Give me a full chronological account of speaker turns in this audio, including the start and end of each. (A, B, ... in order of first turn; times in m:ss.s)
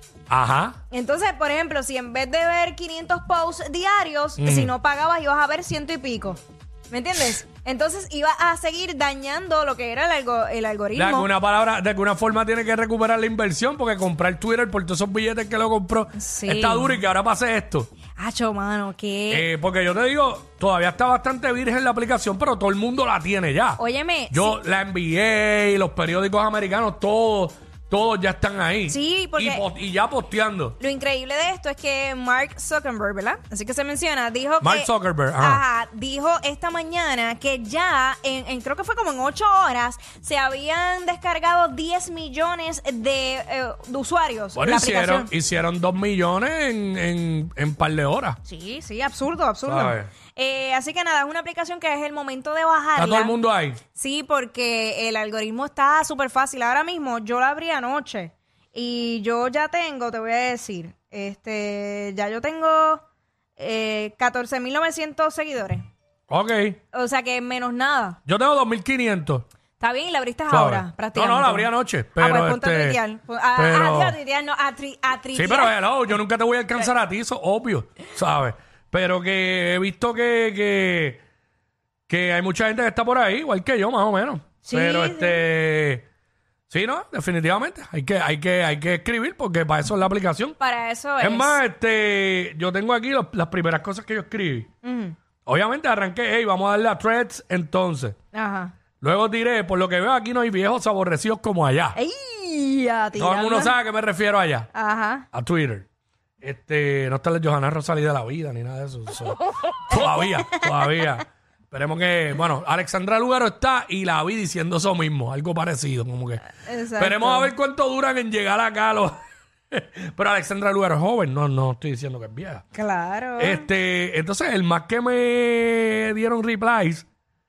0:00.3-0:00.8 A
0:00.9-0:11.3 B
0:04.4-0:04.7 A
0:10.9-0:17.9 A
0:16.2-0:17.0 B
0:18.2-0:19.5 B
0:19.3-0:23.8 A
0:23.8-0:24.6 B
0:24.3-0:30.8 A
0:28.9-0:29.7 B
0:30.8-0:45.3 B
0:34.6-0:35.6 A
0:44.6-0:48.4 A
0:48.4-0:53.4 B
0:49.6-0:50.1 A
0:53.0-0:53.8 A
0:53.9-1:03.0 B
1:03.6-1:05.8 B
1:06.3-1:06.8 A
1:06.9-1:08.2 B
1:08.3-1:09.4 A
1:09.8-1:15.7 B
1:10.5-1:13.0 A
1:13.6-1:14.2 A
1:15.3-1:21.2 A
1:22.1-1:26.1 A
1:24.6-1:25.4 B
1:26.7-1:30.6 A
1:30.6-1:31.6 B
1:31.2-1:34.7 A
1:34.8-1:35.2 B
1:35.5-1:38.2 A
1:38.3-1:38.7 B
1:39.0-1:42.0 A
1:42.0-1:43.7 B
1:43.2-1:44.7 A
1:44.7-1:45.2 B
1:45.3-1:45.9 A
1:46.4-1:59.2 A
1:50.0-1:50.6 B
1:56.6-1:57.5 B
1:59.7-2:02.6 A
2:02.7-2:03.7 B
2:03.4-2:07.1 A